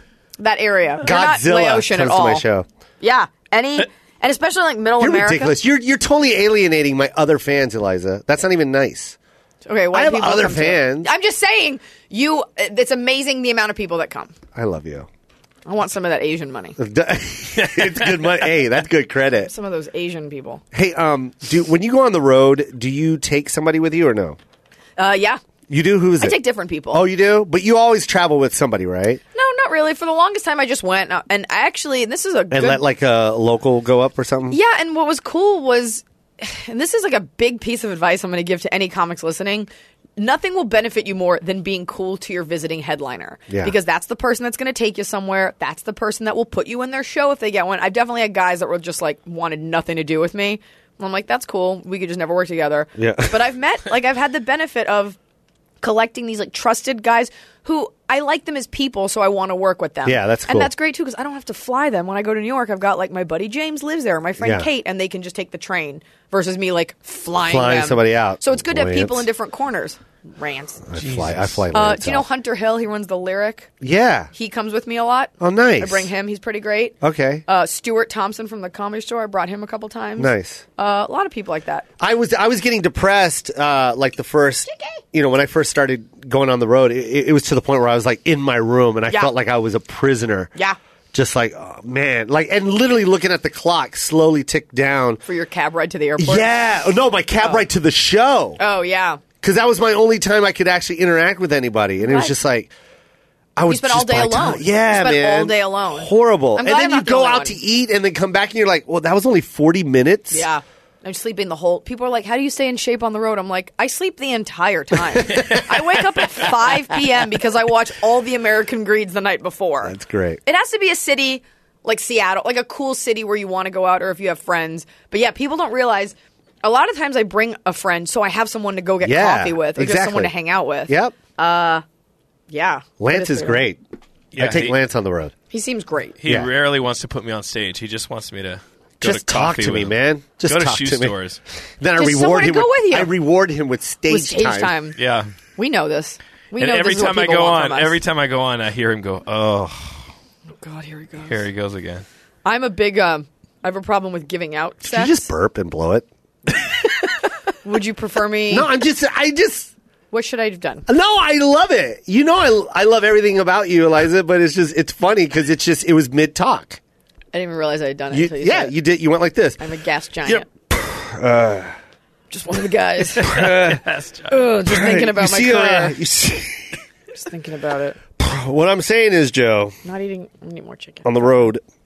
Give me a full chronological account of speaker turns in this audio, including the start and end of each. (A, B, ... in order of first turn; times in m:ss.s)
0:00.4-0:02.4 A
0:01.0-0:02.6 B
0:03.0-0:05.5 A
0:05.0-0:09.2 B
0:09.6-0:14.3 A
0:09.9-0:11.1 B
0:14.6-0:15.1 B
0:15.6-0:16.8 A
0:16.8-0:19.5 B
0:19.4-0:20.6 A
0:20.7-0:24.4 B
0:25.0-0:25.4 A
0:25.7-0:26.4 B
0:26.2-0:27.0 A
0:26.9-0:29.2 B
0:29.3-0:32.8 A
0:32.5-0:34.6 B
0:34.5-0:55.2 A
0:43.5-0:43.7 B
0:53.0-0:53.4 B
0:55.8-1:10.8 A
1:00.0-1:00.7 B
1:04.4-1:04.7 B
1:07.4-1:09.3 B
1:10.9-1:12.3 B
1:11.0-1:11.6 C
1:11.7-1:13.7 A
1:13.8-1:14.3 B
1:14.3-1:21.9 A
1:15.4-1:16.1 B
1:17.0-1:17.4 B
1:20.2-1:20.6 B
1:22.0-1:30.5 B
1:24.7-1:25.0 A
1:29.1-1:29.3 A
1:31.1-1:35.2 B
1:35.3-1:36.5 A
1:36.2-1:38.6 B
1:37.4-1:37.6 A
1:38.6-1:39.2 A
1:39.4-1:42.7 B
1:42.0-1:42.3 A
1:43.6-1:50.5 B
1:43.6-1:47.6 A
1:50.3-2:11.8 A
1:55.2-1:55.6 B
1:59.8-2:00.4 B
2:09.0-2:10.3 B
2:10.9-2:11.2 B
2:12.5-2:13.6 A
2:13.0-2:13.8 B
2:14.3-2:14.8 C
2:14.4-2:15.3 B
2:15.5-2:16.2 A
2:16.2-2:21.4 C
2:19.0-2:21.2 B
2:21.8-2:24.7 B
2:22.0-2:23.1 A
2:24.1-2:25.0 A
2:25.0-2:25.3 C
2:25.6-2:28.0 A
2:26.6-2:30.1 C
2:30.6-2:31.4 A
2:31.3-2:32.0 C
2:32.4-2:35.3 A
2:34.8-2:36.1 B
2:37.6-2:38.7 A
2:38.5-2:39.7 B
2:40.1-2:40.9 A
2:40.9-2:46.8 B
2:47.3-2:48.8 A
2:48.1-2:49.6 B
2:49.6-2:50.5 A
2:50.2-2:51.8 B
2:52.3-2:53.4 A
2:53.2-2:53.8 B
2:53.2-2:54.3 C
2:54.3-2:56.0 A
2:54.6-2:56.8 B
2:57.1-2:58.0 A
2:58.2-2:59.8 B
2:59.8-3:01.4 A
3:01.0-3:01.6 B